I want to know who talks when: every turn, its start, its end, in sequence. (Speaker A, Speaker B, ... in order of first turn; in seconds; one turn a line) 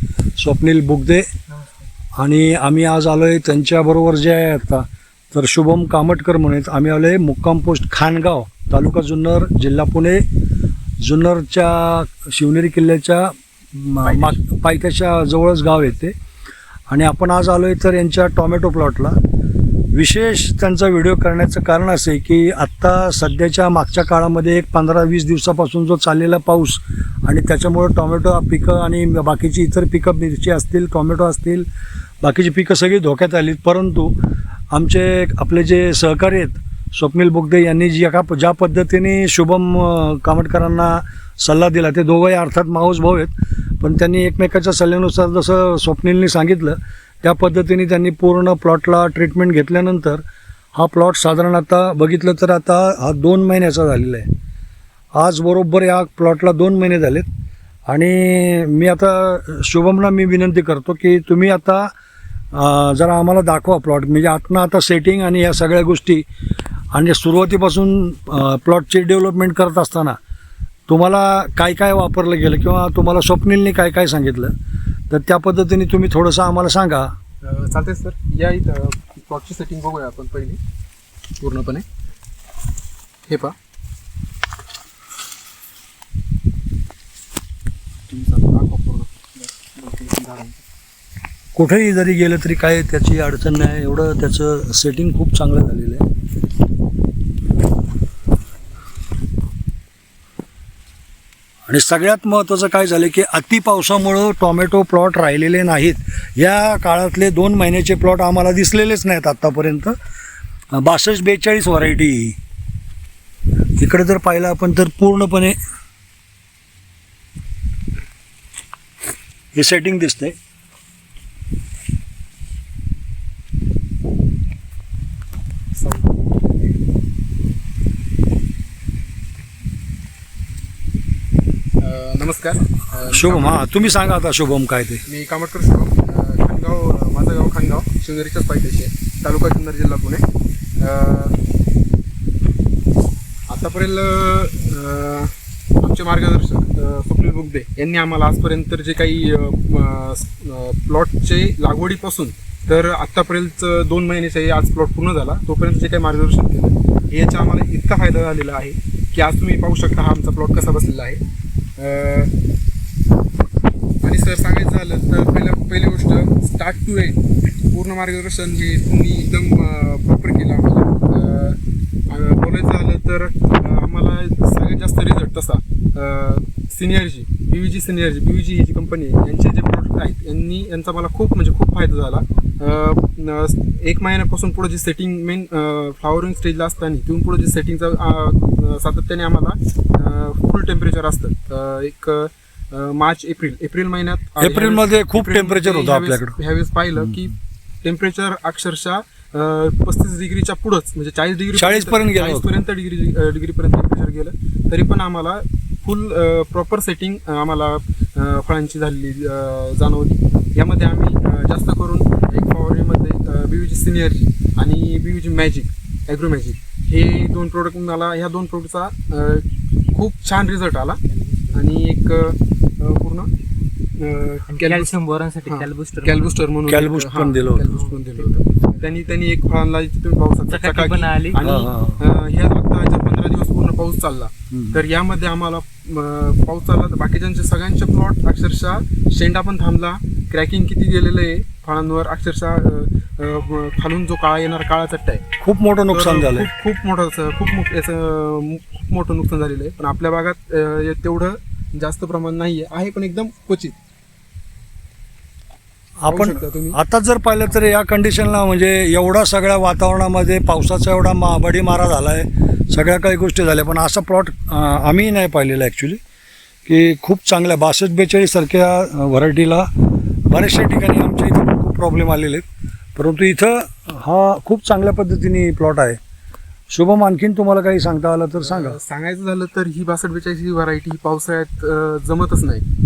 Speaker A: 0.4-1.3
Speaker A: 2.2-10.2
Speaker A: 11.0-16.1
Speaker B: 14.0-14.4
Speaker A: 16.9-19.2
Speaker A: 19.9-31.7
Speaker A: 32.2-34.1
Speaker A: 34.7-50.2
Speaker A: 50.7-54.3
Speaker A: 55.1-57.3
Speaker A: 57.9-61.9
Speaker A: 62.5-66.2
Speaker A: 66.9-70.2
Speaker A: 70.9-74.5
Speaker A: 75.1-77.1
Speaker B: 77.4-80.6
Speaker B: 81.4-81.8
Speaker B: 83.3-83.5
Speaker B: 88.1-90.6
Speaker A: 91.5-96.0
Speaker A: 101.7-109.9
Speaker A: 110.7-112.4
Speaker A: 113.8-115.5
Speaker A: 119.5-120.4
Speaker B: 125.7-126.7
Speaker B: 131.8-133.8
Speaker A: 133.1-135.0
Speaker B: 135.1-140.2
Speaker B: 140.8-141.3
Speaker B: 143.5-161.2
Speaker B: 161.8-162.3
Speaker B: 164.0-221.0
Speaker A: 194.4-196.4
Speaker A: 201.5-202.5
Speaker B: 221.5-223.3
Speaker B: 224.0-224.9
Speaker C: 224.5-226.3
Speaker B: 225.4-245.2
Speaker A: 226.7-227.8
Speaker C: 227.7-228.0
Speaker C: 230.5-231.4
Speaker A: 231.4-232.0
Speaker A: 234.5-234.8
Speaker A: 245.4-246.5
Speaker B: 245.9-253.8
Speaker A: 256.0-266.0
Speaker B: 256.1-256.8
Speaker A: 266.6-269.7
Speaker A: 270.3-272.4
Speaker A: 272.9-276.0
Speaker A: 276.7-278.8
Speaker B: 278.4-282.7